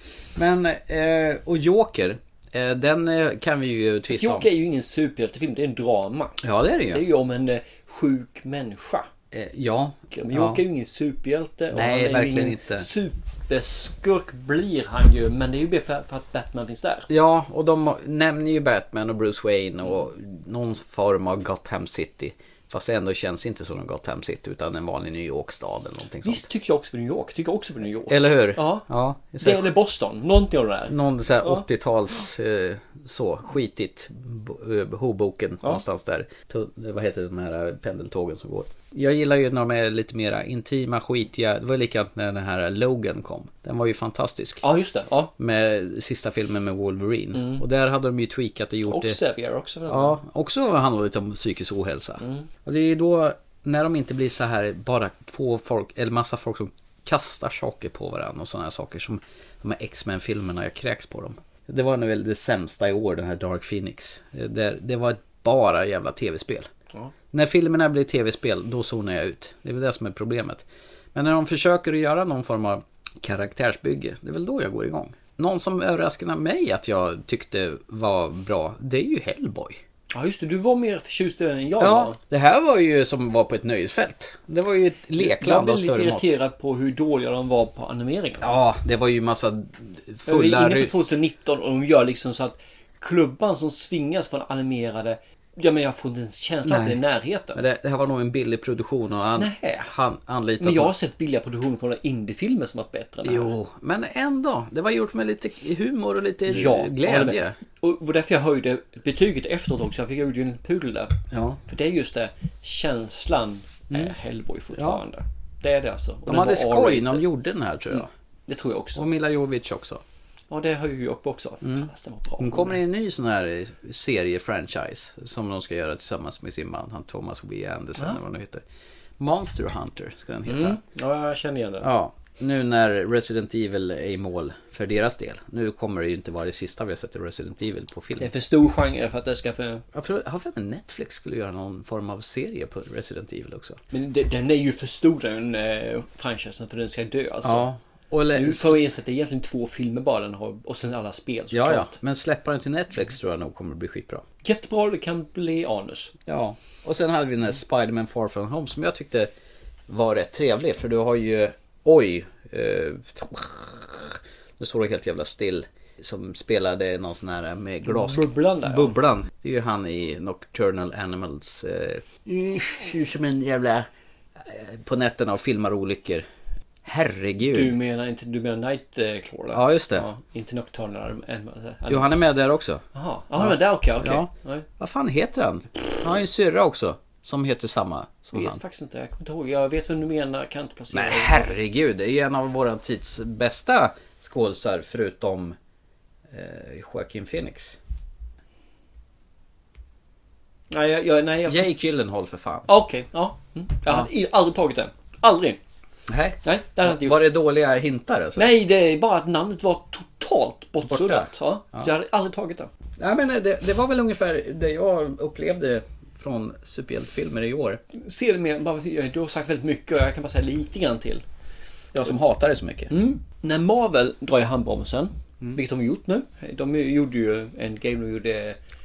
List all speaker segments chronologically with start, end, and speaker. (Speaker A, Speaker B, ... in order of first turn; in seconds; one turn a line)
Speaker A: 0.3-4.5
Speaker B: 4.1-9.1
Speaker A: 6.4-7.0
Speaker A: 9.3-10.6
Speaker B: 10.1-17.1
Speaker A: 11.7-12.9
Speaker A: 17.1-26.5
Speaker B: 26.2-28.9
Speaker A: 28.1-29.7
Speaker B: 29.4-31.6
Speaker A: 30.9-44.6
Speaker B: 44.6-45.3
Speaker A: 45.4-49.2
Speaker B: 47.3-47.6
Speaker B: 48.9-50.2
Speaker A: 49.9-66.7
Speaker B: 52.2-52.5
Speaker A: 67.3-79.8
Speaker B: 80.1-82.2
Speaker A: 81.8-86.3
Speaker B: 85.2-88.6
Speaker A: 88.4-91.1
Speaker B: 90.2-97.6
Speaker A: 96.6-97.0
Speaker A: 97.5-100.9
Speaker B: 99.3-99.9
Speaker B: 100.6-103.5
Speaker A: 103.2-107.6
Speaker B: 106.5-117.3
Speaker A: 111.3-111.6
Speaker A: 114.7-115.0
Speaker A: 116.2-118.1
Speaker B: 117.9-119.0
Speaker A: 118.9-120.0
Speaker B: 120.5-122.8
Speaker A: 121.6-128.6
Speaker A: 129.2-130.8
Speaker B: 130.5-131.9
Speaker A: 131.8-138.3
Speaker B: 138.2-139.8
Speaker A: 139.9-143.8
Speaker B: 143.9-147.7
Speaker A: 147.4-148.8
Speaker B: 148.3-151.9
Speaker A: 151.5-154.2
Speaker B: 154.4-156.1
Speaker A: 156.2-159.3
Speaker A: 159.9-176.2
Speaker B: 167.8-169.0
Speaker A: 176.8-177.8
Speaker B: 177.5-182.2
Speaker A: 179.5-180.1
Speaker A: 181.9-182.8
Speaker B: 182.9-184.7
Speaker A: 183.4-188.6
Speaker B: 188.3-191.5
Speaker A: 190.9-195.6
Speaker A: 196.3-197.8
Speaker B: 200.7-201.7
Speaker A: 201.4-202.7
Speaker B: 202.7-205.6
Speaker A: 206.1-208.5
Speaker B: 206.4-207.2
Speaker B: 208.3-212.7
Speaker A: 210.8-211.9
Speaker A: 213.0-217.8
Speaker B: 217.9-221.2
Speaker A: 221.9-222.9
Speaker B: 222.9-228.6